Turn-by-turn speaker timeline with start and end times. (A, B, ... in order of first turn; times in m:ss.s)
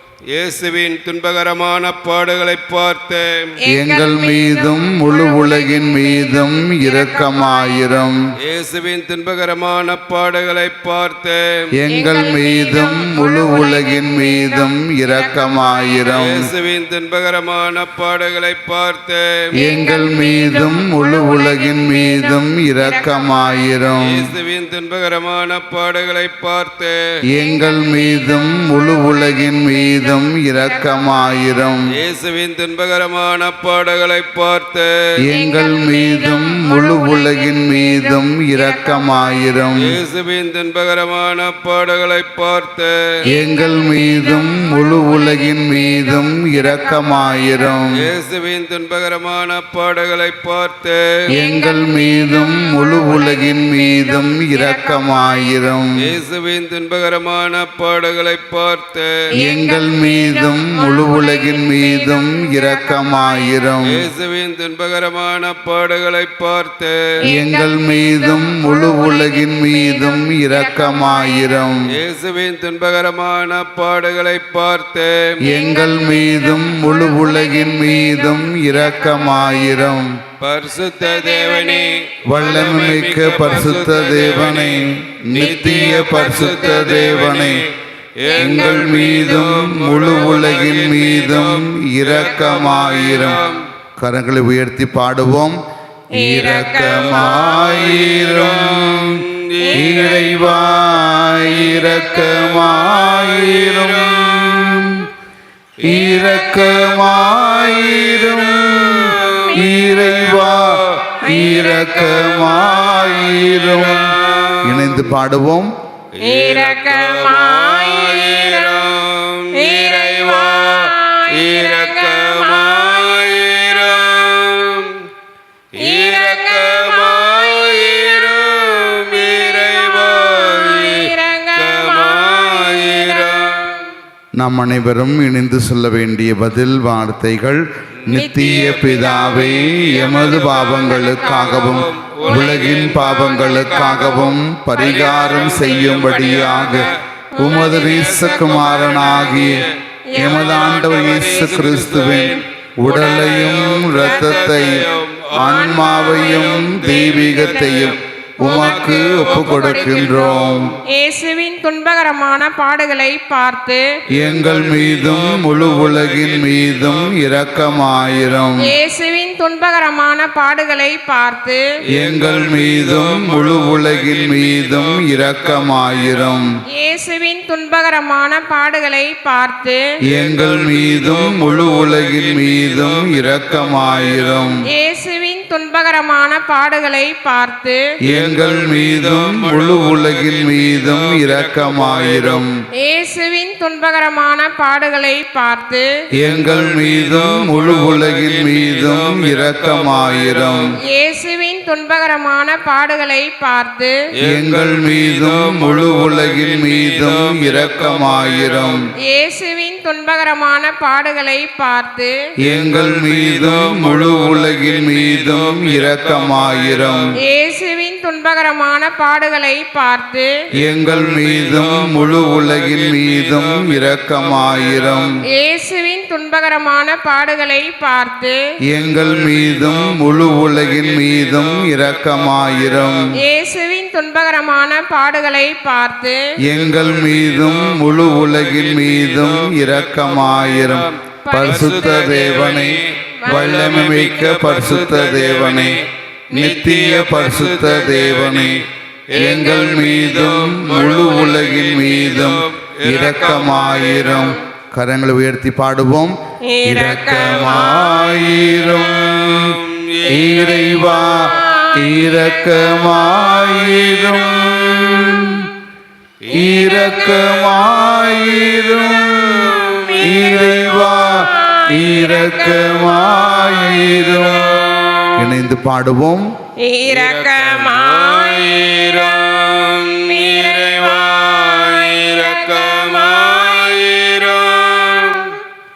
0:00.3-0:03.6 A
0:03.6-0:08.1 B
0:03.7-0:08.2 C
0:08.4-0:11.7 A
0:11.8-0:16.5 C
0:11.9-0:16.3 B
0:16.1-0:19.5 A
0:19.6-0:24.0 B
0:19.6-0:24.3 C
0:24.0-0:27.2 A
0:27.3-0:31.7 B
0:27.3-0:31.9 C
0:31.9-0:35.1 A
0:35.2-0:40.0 C
0:35.3-0:39.7 B
0:39.8-0:43.2 A
0:43.3-0:47.9 B
0:43.3-0:48.1 C
0:47.9-0:51.2 A
0:51.3-0:55.7 B
0:51.3-0:56.1 C
0:56.0-0:59.3 A
0:59.4-1:03.8 B
0:59.4-1:04.0 C
1:03.8-1:07.2 A
1:07.2-1:11.6 B
1:07.3-1:11.9 C
1:11.9-1:15.4 A
1:15.4-1:19.9 B
1:15.4-1:20.2 C
1:20.4-1:24.8 A
1:21.0-1:22.0 B
1:22.3-1:27.6 C
1:25.3-1:33.6 A
1:25.4-1:26.8 B
1:28.2-1:29.7 B
1:28.4-1:33.4 C
1:32.3-1:33.4 B
1:34.0-1:35.6 C
1:36.2-1:39.2 C
1:36.2-1:37.9 B
1:37.1-1:45.0 A
1:39.6-1:40.3 B
1:39.8-1:45.1 C
1:45.8-1:55.0 A
1:45.8-1:55.7 C
1:49.1-1:49.7 B
1:51.2-1:52.3 B
1:56.2-2:05.1 A
1:56.2-1:59.0 B
1:59.5-2:03.3 B
2:05.7-2:13.8 A
2:05.8-2:13.9 B
2:14.4-2:34.8 C
2:18.1-2:24.3 B
2:18.1-2:40.8 A
2:24.9-2:29.5 B
2:30.1-2:31.0 B
2:33.0-2:36.6 B
2:35.4-2:40.8 C
2:37.4-2:37.8 B
2:38.4-2:43.9 B
2:44.2-2:48.7 C
2:44.2-2:48.4 A
2:48.6-2:51.6 B
2:51.9-2:56.6 C
2:51.9-2:56.4 A
2:56.7-2:59.8 B
3:00.1-3:04.6 C
3:00.1-3:04.6 A
3:04.7-3:07.8 B
3:08.0-3:12.5 C
3:08.1-3:12.4 A
3:12.8-3:15.9 B
3:16.2-3:20.7 C
3:16.2-3:20.7 A
3:20.9-3:24.0 B
3:24.2-3:28.9 A
3:24.2-3:28.9 C
3:29.0-3:32.2 B
3:32.4-3:37.1 C
3:32.5-3:37.1 A
3:37.2-3:40.3 B
3:40.6-3:45.2 C
3:40.6-3:45.1 A
3:45.3-3:48.4 B
3:48.7-3:53.1 C
3:48.7-3:53.1 A
3:53.2-3:56.2 B
3:56.4-4:05.8 C
3:56.5-4:14.3 A
4:01.2-4:01.9 B
4:03.3-4:03.8 B
4:06.3-4:08.6 C
4:09.1-4:25.5 C
4:13.9-4:14.4 B
4:16.5-4:18.0 B
4:17.2-4:21.4 A
4:21.3-4:22.5 B
4:23.0-4:25.0 A
4:25.1-4:25.5 B
4:26.2-4:30.5 A
4:26.3-4:34.5 C
4:26.4-4:27.3 B
4:29.5-4:35.3 B
4:33.9-4:35.2 A
4:35.2-4:36.3 C
4:36.6-4:44.0 B
4:36.9-4:45.3 A
4:44.6-4:45.4 B